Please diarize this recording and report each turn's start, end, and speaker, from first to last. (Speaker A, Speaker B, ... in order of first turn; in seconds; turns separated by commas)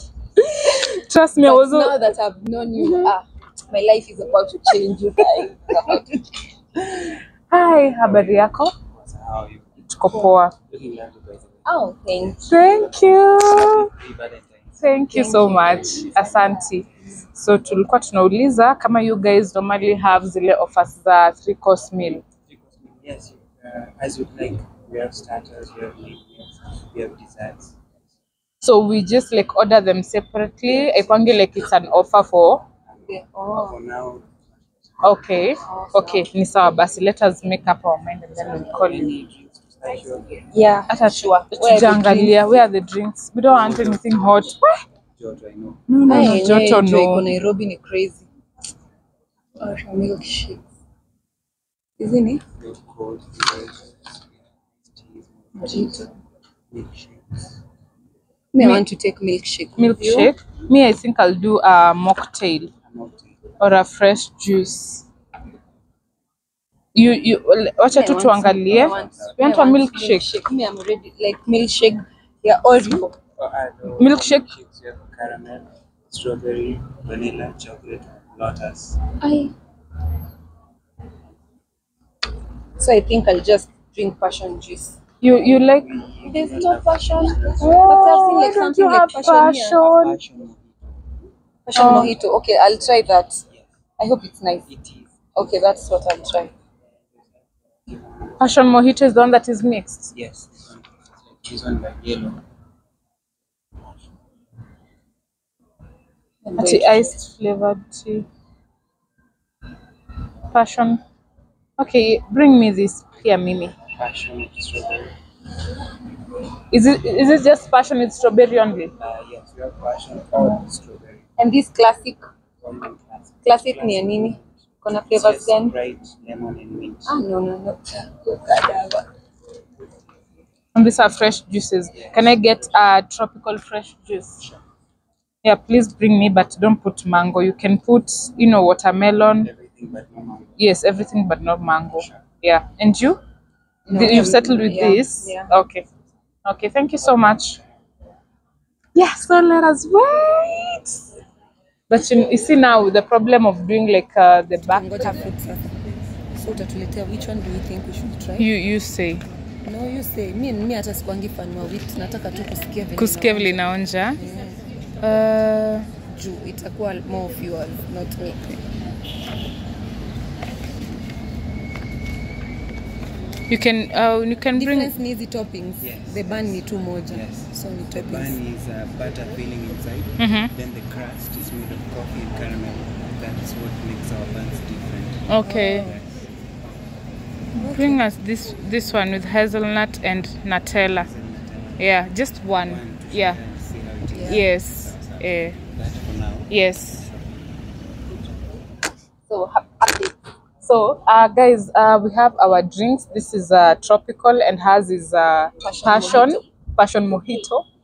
Speaker A: 0.4-1.9, Speaker B: 1.4-6.2, Speaker A: 2.8-3.1, Speaker A: 6.8-8.7, Speaker C: 8.9-9.7, Speaker A: 9.9-10.6, Speaker C: 10.7-11.6, Speaker B: 11.7-12.6, Speaker A: 12.5-13.9, Speaker C: 13.3-14.8, Speaker A: 14.8-22.2, Speaker B: 15.1-16.5, Speaker C: 22.5-27.8, Speaker A: 28.6-32.6, Speaker C: 32.9-35.1, Speaker B: 33.1-33.8, Speaker A: 35.0-39.1, Speaker B: 35.6-36.3, Speaker C: 38.4-40.5, Speaker B: 40.5-42.6, Speaker A: 40.9-44.8, Speaker C: 43.5-44.2, Speaker C: 45.2-45.9, Speaker A: 45.9-47.3, Speaker B: 46.1-48.3, Speaker B: 49.6-50.6, Speaker B: 52.0-52.4, Speaker C: 52.6-55.9, Speaker B: 55.5-56.1, Speaker C: 56.7-57.5, Speaker B: 58.5-60.3, Speaker A: 58.6-58.8, Speaker A: 59.8-62.7, Speaker C: 62.9-63.5, Speaker A: 63.6-65.0, Speaker A: 66.9-70.3, Speaker B: 67.9-73.2, Speaker C: 68.7-69.3, Speaker C: 73.4-79.1, Speaker A: 74.0-74.5, Speaker B: 79.2-79.5, Speaker B: 82.8-85.0, Speaker A: 85.2-85.9, Speaker C: 85.8-87.9, Speaker B: 86.2-89.8, Speaker A: 87.6-90.2, Speaker C: 89.7-91.0, Speaker B: 91.7-93.4, Speaker A: 91.8-92.2, Speaker B: 94.0-94.7, Speaker C: 94.7-95.1, Speaker B: 95.3-96.5, Speaker C: 97.8-98.3, Speaker A: 98.4-100.1, Speaker C: 100.1-102.4, Speaker B: 106.4-107.1, Speaker A: 106.6-108.3, Speaker A: 110.5-111.0, Speaker A: 111.8-113.8, Speaker C: 113.9-115.1, Speaker A: 116.7-118.9, Speaker C: 119.0-121.2, Speaker B: 121.4-122.2, Speaker C: 122.6-124.5, Speaker B: 123.4-125.8, Speaker C: 125.1-127.2, Speaker B: 127.1-129.1, Speaker A: 130.8-134.4, Speaker C: 131.9-132.7, Speaker A: 135.4-139.5, Speaker C: 139.4-140.6, Speaker A: 140.6-143.2, Speaker B: 143.9-145.5, Speaker A: 143.9-145.8, Speaker A: 146.4-147.6, Speaker A: 149.0-151.0, Speaker A: 151.9-155.3, Speaker B: 154.7-155.6, Speaker B: 156.3-158.5, Speaker A: 158.4-159.2, Speaker B: 159.7-163.6, Speaker A: 163.0-164.2, Speaker B: 164.2-164.7, Speaker A: 165.0-165.9, Speaker B: 166.1-168.6, Speaker A: 173.5-174.9, Speaker B: 174.6-178.4, Speaker C: 175.8-186.2, Speaker A: 180.2-180.5, Speaker A: 185.3-185.9, Speaker B: 185.4-185.9, Speaker B: 187.6-188.1, Speaker A: 187.6-191.1, Speaker C: 191.0-191.8, Speaker A: 191.8-193.4, Speaker C: 192.6-197.4, Speaker B: 194.1-194.4, Speaker A: 194.2-195.6, Speaker A: 196.5-197.1, Speaker B: 199.3-200.2, Speaker A: 200.6-207.7, Speaker B: 205.6-206.4